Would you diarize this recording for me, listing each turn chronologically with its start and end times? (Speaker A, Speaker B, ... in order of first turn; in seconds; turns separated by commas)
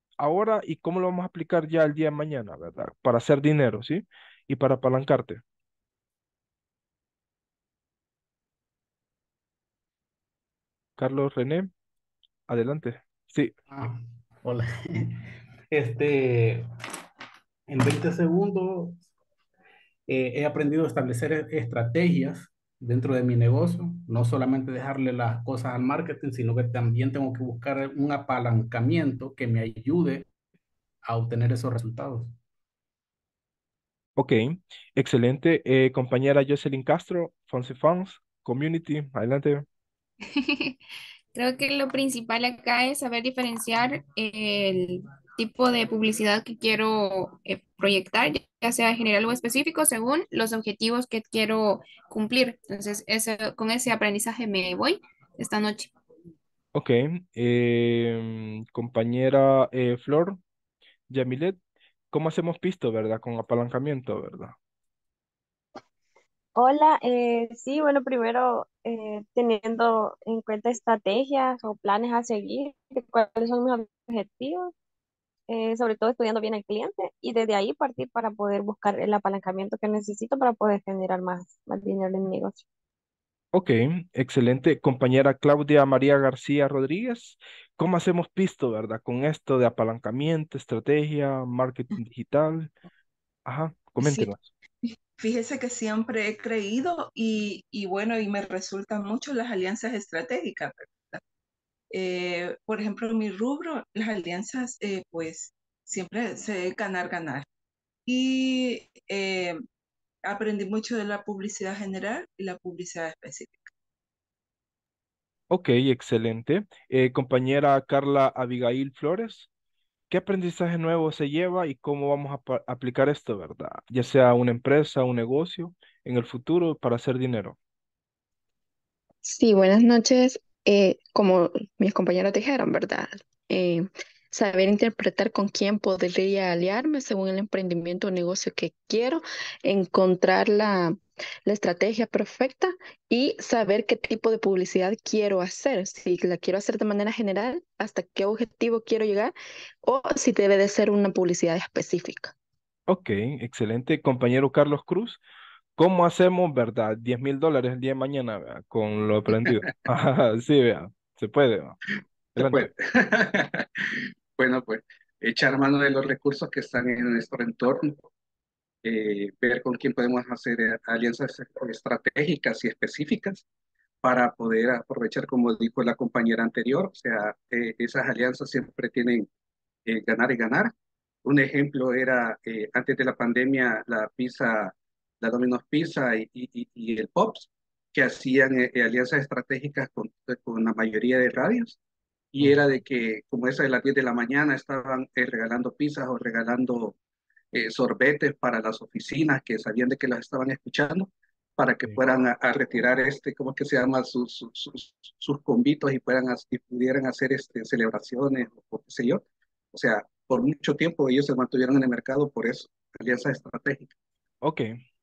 Speaker A: 0.2-5.4, Speaker A: 11.0-11.7, Speaker A: 12.5-13.5, Speaker B: 13.7-16.6, Speaker B: 17.7-19.0, Speaker B: 20.1-30.2, Speaker B: 31.1-32.3, Speaker A: 34.2-39.7, Speaker C: 40.2-40.8, Speaker C: 41.3-55.9, Speaker A: 56.7-60.4, Speaker A: 61.1-61.6, Speaker A: 62.1-64.6, Speaker D: 66.6-74.7, Speaker D: 75.5-82.6, Speaker A: 83.5-92.7, Speaker A: 93.5-94.4, Speaker E: 94.0-94.3, Speaker E: 94.9-101.2, Speaker E: 101.9-107.5, Speaker E: 108.1-109.6, Speaker E: 110.2-113.7, Speaker A: 115.5-119.5, Speaker A: 120.1-127.6, Speaker F: 129.2-152.3, Speaker A: 152.9-155.2, Speaker A: 155.8-161.8, Speaker G: 162.4-163.7, Speaker A: 162.4-162.7, Speaker G: 164.4-168.0, Speaker G: 168.8-173.4, Speaker G: 174.0-179.3, Speaker G: 179.9-180.7, Speaker G: 181.2-191.8, Speaker G: 192.3-197.0, Speaker G: 197.5-213.9, Speaker A: 214.4-214.7